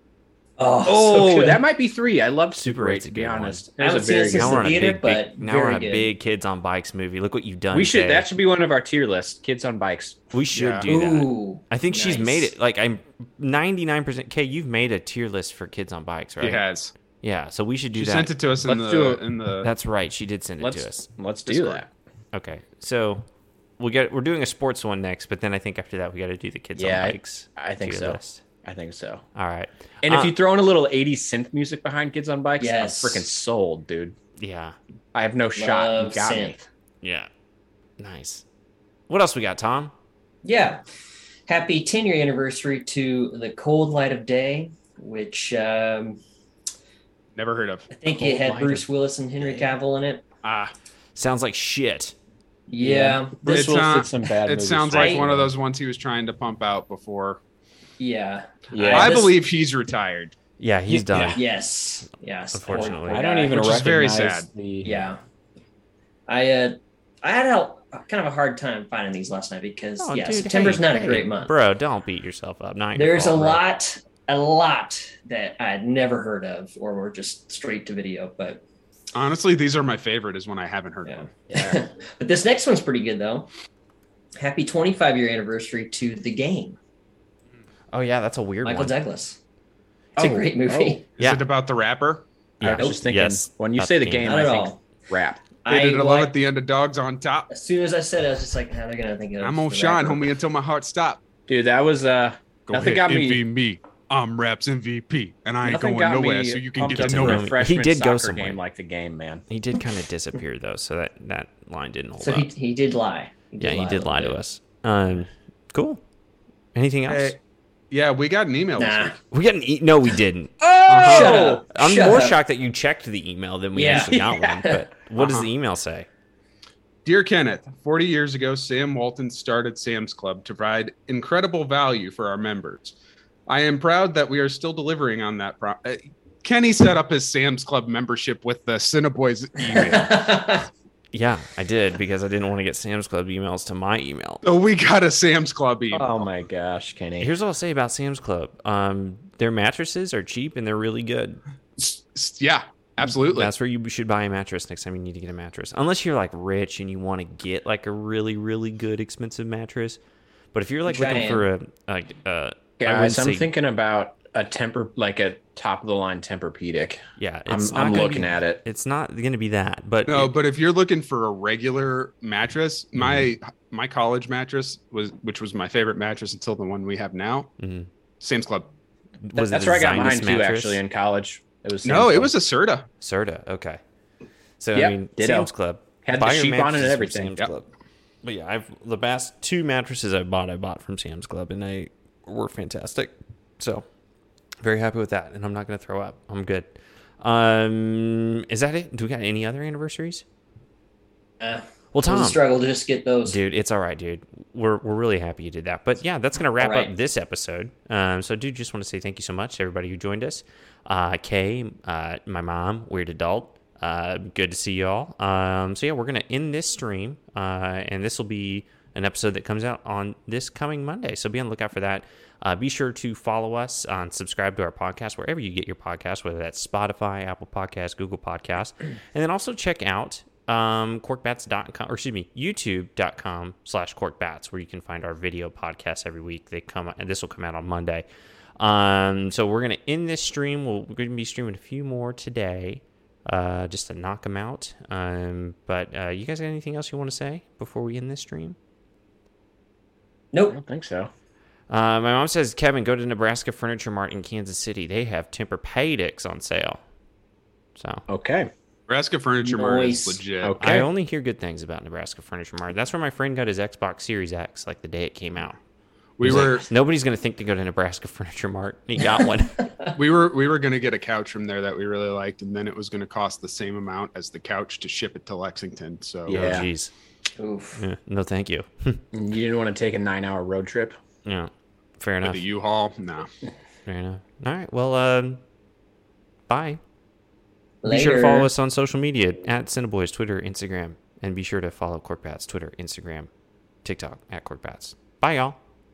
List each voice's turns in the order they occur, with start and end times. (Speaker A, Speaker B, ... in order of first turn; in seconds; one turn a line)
Speaker A: 0.6-1.6
Speaker B: 0.8-4.8
Speaker C: 2.6-3.7
Speaker A: 3.8-6.1
Speaker C: 4.2-8.3
Speaker B: 7.7-10.2
Speaker C: 10.3-16.6
Speaker D: 10.6-10.9
Speaker A: 10.9-12.5
Speaker D: 16.4-16.9
Speaker C: 17.2-18.3
Speaker D: 17.9-19.7
Speaker B: 18.6-19.2
Speaker C: 19.6-23.2
Speaker B: 20.6-21.9
Speaker C: 23.8-28.4
Speaker B: 26.8-29.2
Speaker C: 29.4-30.3
Speaker B: 30.0-34.2
Speaker A: 32.6-33.3
Speaker C: 34.4-34.8
Speaker B: 35.1-36.6
Speaker A: 35.6-36.6
Speaker C: 37.0-37.3
Speaker C: 38.0-38.4
Speaker C: 39.1-39.9
Speaker A: 40.4-40.8
Speaker A: 41.5-46.2
Speaker D: 47.4-47.9
Speaker A: 47.9-50.2
Speaker C: 48.2-48.8
Speaker B: 49.4-49.7
Speaker D: 50.4-50.7
Speaker C: 51.1-52.1
Speaker A: 52.7-53.4
Speaker B: 52.8-55.5
Speaker D: 53.5-57.4
Speaker A: 54.9-55.2
Speaker A: 58.0-59.3
Speaker B: 58.7-59.3
Speaker D: 58.9-60.4
Speaker C: 60.6-61.4
Speaker D: 60.9-61.4
Speaker A: 61.3-63.6
Speaker C: 62.5-63.2
Speaker B: 63.0-65.1
Speaker D: 63.5-64.5
Speaker A: 64.8-65.2
Speaker A: 66.3-71.5
Speaker C: 70.0-73.6
Speaker A: 73.0-78.6
Speaker D: 79.1-81.3
Speaker A: 81.1-83.5
Speaker B: 81.5-81.8
Speaker A: 84.4-86.8
Speaker C: 87.9-89.0
Speaker A: 88.6-89.4
Speaker B: 90.2-91.0
Speaker A: 90.2-91.0
Speaker D: 91.2-92.2
Speaker C: 91.2-91.5
Speaker C: 92.6-94.7
Speaker B: 92.6-95.5
Speaker A: 92.7-93.0
Speaker A: 94.2-94.8
Speaker A: 95.6-96.3
Speaker D: 95.7-97.5
Speaker A: 97.5-100.3
Speaker D: 99.4-101.2
Speaker B: 101.5-103.4
Speaker D: 102.7-107.5
Speaker B: 105.6-109.4
Speaker C: 106.9-108.6
Speaker C: 109.5-112.5
Speaker A: 112.2-114.4
Speaker C: 113.6-116.0
Speaker C: 116.8-117.4
Speaker D: 117.1-117.4
Speaker D: 117.9-119.2
Speaker A: 118.8-119.2
Speaker C: 119.3-120.6
Speaker B: 120.6-121.6
Speaker D: 120.9-121.5
Speaker A: 121.0-122.4
Speaker C: 121.7-126.1
Speaker A: 123.7-124.8
Speaker B: 123.9-124.6
Speaker D: 125.2-125.5
Speaker D: 127.0-132.9
Speaker D: 133.5-140.5
Speaker A: 139.8-140.7
Speaker C: 141.1-144.4
Speaker D: 144.4-146.3
Speaker B: 145.9-147.3
Speaker C: 147.2-151.4
Speaker D: 151.8-153.5
Speaker C: 153.2-160.0
Speaker C: 160.5-163.5
Speaker A: 160.9-161.4
Speaker B: 162.8-168.6
Speaker C: 167.2-170.3
Speaker D: 170.1-177.5
Speaker C: 173.0-173.3
Speaker C: 177.6-177.9
Speaker D: 178.2-178.7
Speaker C: 179.2-180.8
Speaker B: 179.3-182.3
Speaker D: 181.8-182.9
Speaker C: 183.0-183.8
Speaker C: 184.6-187.7
Speaker B: 184.8-185.5
Speaker B: 186.1-187.5
Speaker C: 188.2-193.8
Speaker C: 194.6-200.2
Speaker A: 201.4-203.4
Speaker C: 201.9-202.4
Speaker C: 203.2-238.1
Speaker A: 206.6-206.9
Speaker C: 238.6-248.6
Speaker B: 250.5-251.1
Speaker C: 251.7-256.8
Speaker C: 257.8-258.0
Speaker B: 258.1-258.5
Speaker D: 258.9-260.6
Speaker A: 259.4-260.2
Speaker B: 260.4-260.9
Speaker C: 260.6-265.6
Speaker D: 266.2-266.7
Speaker C: 266.2-269.7
Speaker B: 266.2-266.5
Speaker A: 269.6-269.9
Speaker D: 270.0-276.6
Speaker C: 276.3-276.9
Speaker B: 276.3-276.7
Speaker A: 277.4-277.8
Speaker C: 277.8-279.0
Speaker B: 279.1-281.0
Speaker C: 281.2-282.4
Speaker D: 282.2-283.3
Speaker C: 283.9-285.4
Speaker C: 286.5-286.8
Speaker A: 287.8-288.5
Speaker C: 287.9-293.3
Speaker C: 293.8-295.6